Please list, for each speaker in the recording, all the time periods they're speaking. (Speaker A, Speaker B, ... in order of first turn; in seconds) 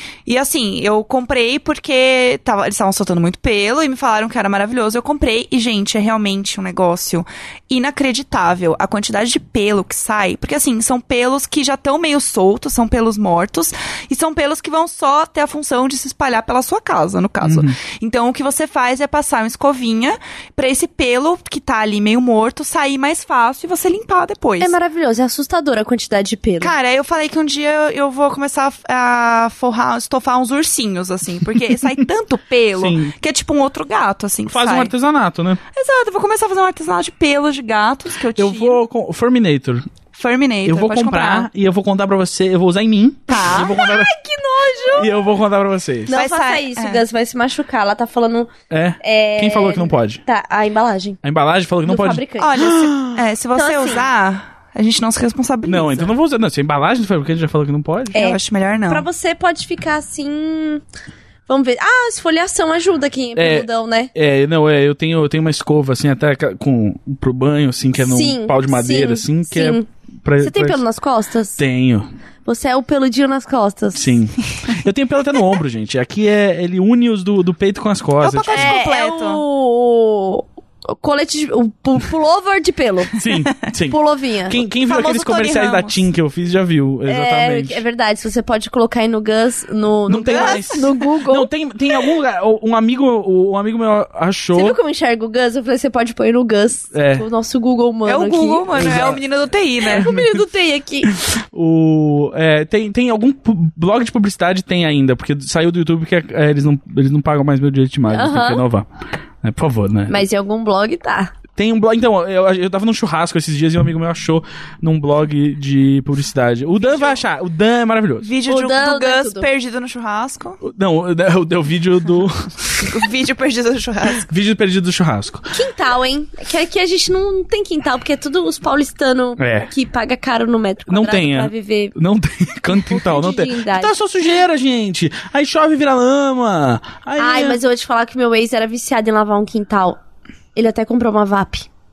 Speaker A: 0.3-24.7, 26.6-34.9, 35.7-38.8, 40.2-41.5, 43.3-43.8, 46.1-47.0, 52.4-56.1, 58.1-59.0, 78.2-79.4, 84.9-86.0, 90.3-90.9, 98.0-100.1, 118.2-120.6, 122.8-124.3
Speaker B: 17.4-17.8, 32.8-33.1, 34.5-35.6, 38.4-39.9, 40.7-44.1, 44.9-46.2, 48.7-50.2, 51.2-53.1, 55.6-58.2, 63.3-70.8, 71.6-72.1, 74.0-78.7, 83.2-87.8, 90.1-94.8, 96.9-97.2, 98.7-99.2, 100.0-100.4, 101.1-108.9, 109.4-110.2, 111.5-118.3, 120.6-123.0, 124.3-125.5, 129.4-129.7, 130.9-137.6
Speaker C: 24.6-26.7, 43.5-45.2, 46.1-51.2, 51.8-52.7, 53.5-54.0, 58.1-60.8, 61.5-64.1, 68.0-69.9, 70.4-71.6, 72.5-74.2, 78.5-83.1, 83.9-84.6, 87.0-91.5, 94.5-99.0, 99.8-101.1, 108.1-108.6, 110.1-111.3, 118.5-119.5, 125.5-131.9, 132.7-133.9, 137.2-140.0, 140.6-141.7